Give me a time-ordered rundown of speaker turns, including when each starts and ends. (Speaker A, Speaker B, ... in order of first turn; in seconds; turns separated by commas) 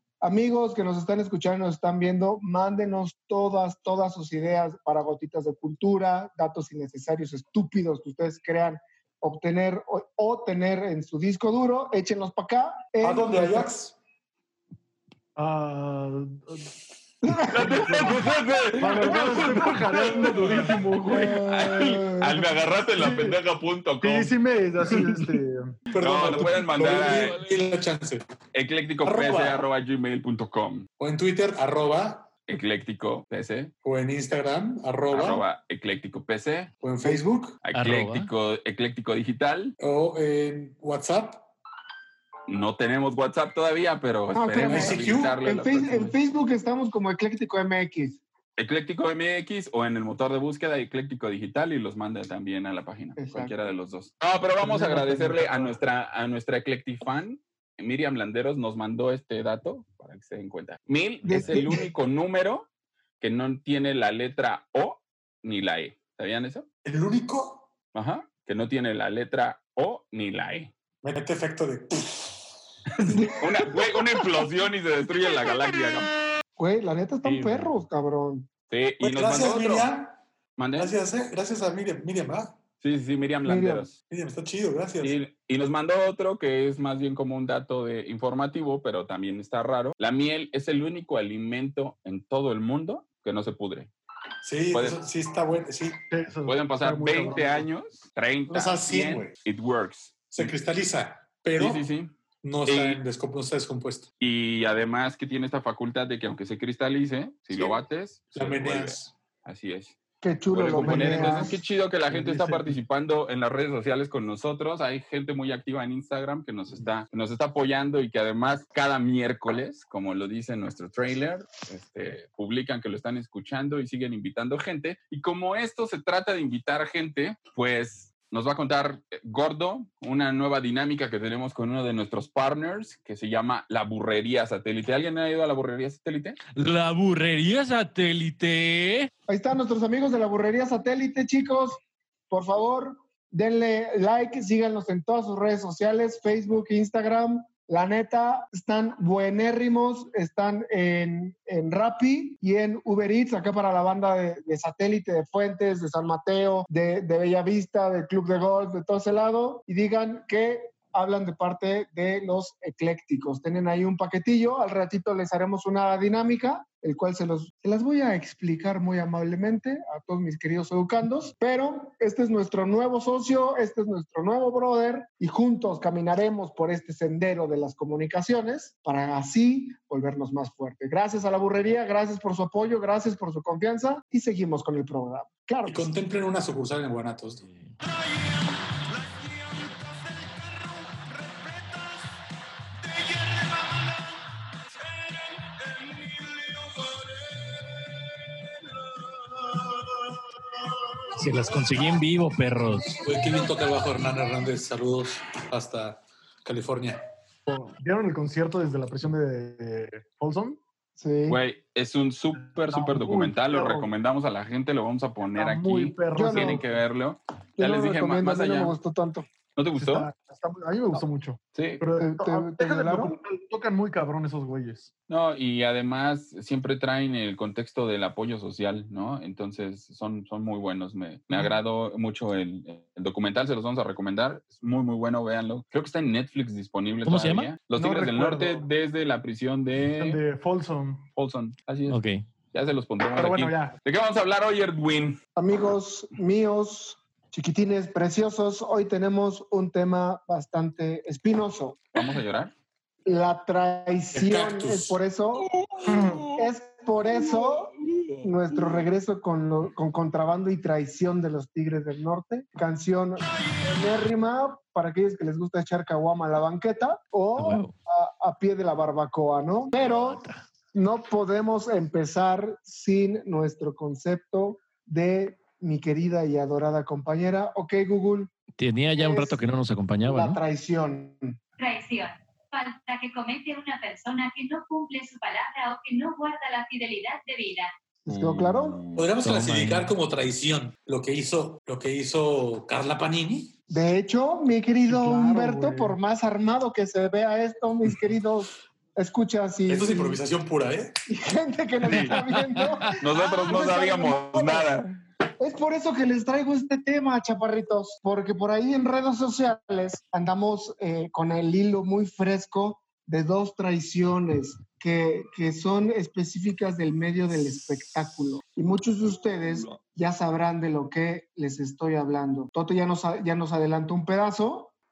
Speaker A: 0.2-13.7, Speaker B: 13.0-13.9, Speaker C: 15.3-16.7, Speaker A: 17.2-17.9, Speaker D: 17.4-24.3, Speaker C: 17.6-21.4, Speaker A: 21.1-22.5, Speaker C: 22.9-23.4, Speaker C: 24.0-25.8, Speaker B: 25.9-28.2, Speaker D: 25.9-27.4, Speaker E: 27.0-27.6, Speaker D: 28.5-30.9, Speaker B: 29.0-29.7, Speaker B: 31.0-32.4, Speaker D: 32.5-33.7, Speaker B: 33.8-35.5, Speaker D: 35.1-36.7, Speaker B: 36.8-37.6, Speaker A: 37.0-37.4, Speaker D: 37.6-39.8, Speaker E: 37.7-38.3, Speaker B: 39.8-41.5, Speaker D: 42.5-46.1, Speaker A: 44.3-48.2, Speaker B: 44.5-45.4, Speaker D: 48.6-62.7, Speaker A: 53.2-53.6, Speaker C: 54.6-55.7, Speaker A: 61.2-61.9, Speaker D: 63.2-66.7, Speaker B: 66.8-67.7, Speaker D: 67.9-70.7, Speaker B: 71.0-72.3, Speaker D: 72.9-76.1, Speaker A: 73.1-74.2, Speaker A: 76.6-78.5, Speaker E: 77.2-77.8, Speaker D: 78.7-79.9, Speaker B: 79.0-80.2, Speaker D: 80.6-80.9, Speaker B: 80.8-82.6, Speaker D: 82.8-84.0, Speaker A: 83.4-83.9, Speaker B: 84.1-85.2, Speaker D: 85.0-93.9, Speaker B: 94.4-96.0, Speaker D: 94.7-95.0, Speaker C: 96.1-97.7, Speaker D: 96.5-100.5, Speaker B: 98.5-99.4, Speaker B: 100.3-101.9, Speaker D: 101.5-103.0, Speaker B: 102.4-104.1, Speaker D: 104.2-110.0, Speaker B: 107.5-109.1, Speaker A: 110.2-111.6, Speaker D: 110.5-136.4, Speaker C: 110.8-111.5, Speaker C: 112.1-112.8, Speaker E: 136.5-139.1, Speaker A: 139.3-185.9, Speaker B: 185.7-187.4, Speaker E: 187.4-187.8, Speaker E: 201.2-203.0, Speaker B: 202.9-207.0, Speaker C: 207.4-210.6, Speaker A: 211.0-211.4, Speaker D: 211.2-218.7, Speaker C: 212.4-213.9, Speaker C: 215.2-216.8, Speaker A: 216.1-216.6, Speaker A: 217.6-219.3, Speaker D: 219.5-220.1, Speaker C: 219.7-224.9, Speaker D: 221.5-221.8, Speaker A: 222.0-223.2, Speaker D: 225.1-240.2, Speaker E: 237.0-237.5, Speaker C: 237.7-238.7, Speaker C: 239.9-241.1, Speaker D: 241.2-242.0, Speaker E: 241.9-242.2, Speaker D: 242.5-245.2, Speaker C: 243.1-243.8, Speaker A: 245.3-252.0, Speaker D: 251.9-252.5, Speaker A: 253.1-255.5, Speaker B: 254.1-255.0, Speaker D: 255.8-256.1, Speaker A: 256.1-270.2, Speaker D: 257.9-258.2, Speaker E: 267.4-267.7, Speaker E: 269.8-270.4, Speaker A: 270.7-278.3, Speaker E: 278.6-280.4, Speaker A: 278.9-279.4, Speaker A: 280.0-281.4, Speaker F: 281.6-287.7, Speaker A: 288.1-288.8, Speaker D: 288.1-289.1, Speaker B: 288.9-293.5, Speaker E: 289.2-289.9, Speaker A: 293.7-300.2, Speaker C: 294.8-296.0, Speaker B: 299.7-301.0, Speaker A: 301.1-304.7, Speaker D: 301.8-302.2, Speaker E: 301.9-302.9, Speaker D: 303.0-305.0, Speaker A: 305.4-324.7